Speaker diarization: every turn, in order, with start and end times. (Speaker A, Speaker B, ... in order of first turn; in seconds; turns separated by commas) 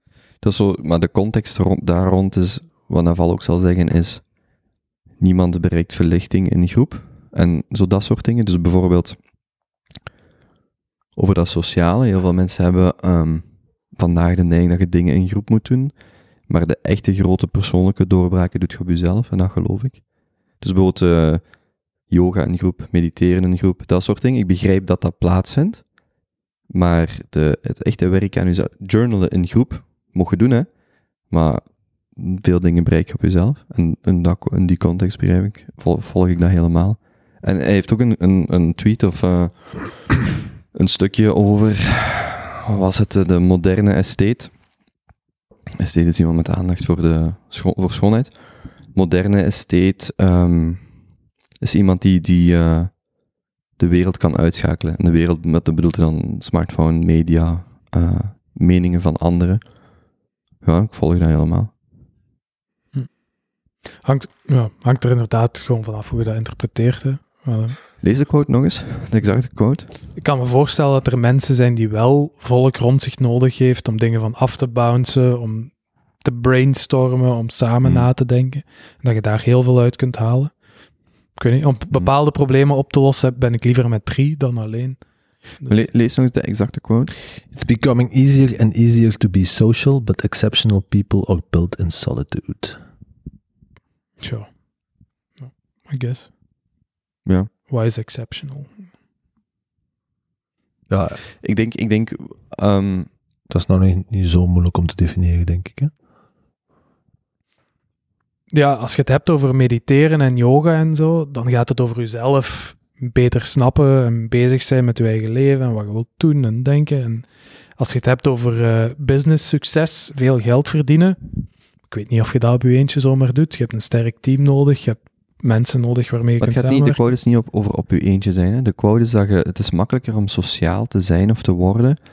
Speaker A: 0.4-4.2, Speaker A: 5.2-9.2, Speaker A: 11.2-15.9, Speaker A: 16.5-20.1, Speaker A: 20.6-21.5, Speaker A: 22.1-25.9, Speaker A: 26.7-30.7, Speaker A: 31.3-44.5, Speaker A: 45.8-51.0, Speaker A: 51.6-53.0, Speaker A: 53.8-59.6, Speaker A: 60.6-61.7, Speaker B: 64.0-67.8, Speaker A: 68.0-69.9, Speaker B: 70.2-75.7, Speaker B: 76.2-80.5, Speaker B: 81.4-85.0, Speaker A: 85.7-87.2, Speaker C: 87.5-92.8, Speaker B: 94.2-94.5, Speaker B: 95.4-96.3, Speaker B: 97.7-98.8, Speaker C: 100.9-101.2, Speaker A: 101.4-103.1, Speaker C: 103.5-105.9, Speaker B: 108.5-117.3, Speaker B: 117.8-121.2, Speaker B: 121.9-127.0, Speaker A: 126.4-132.0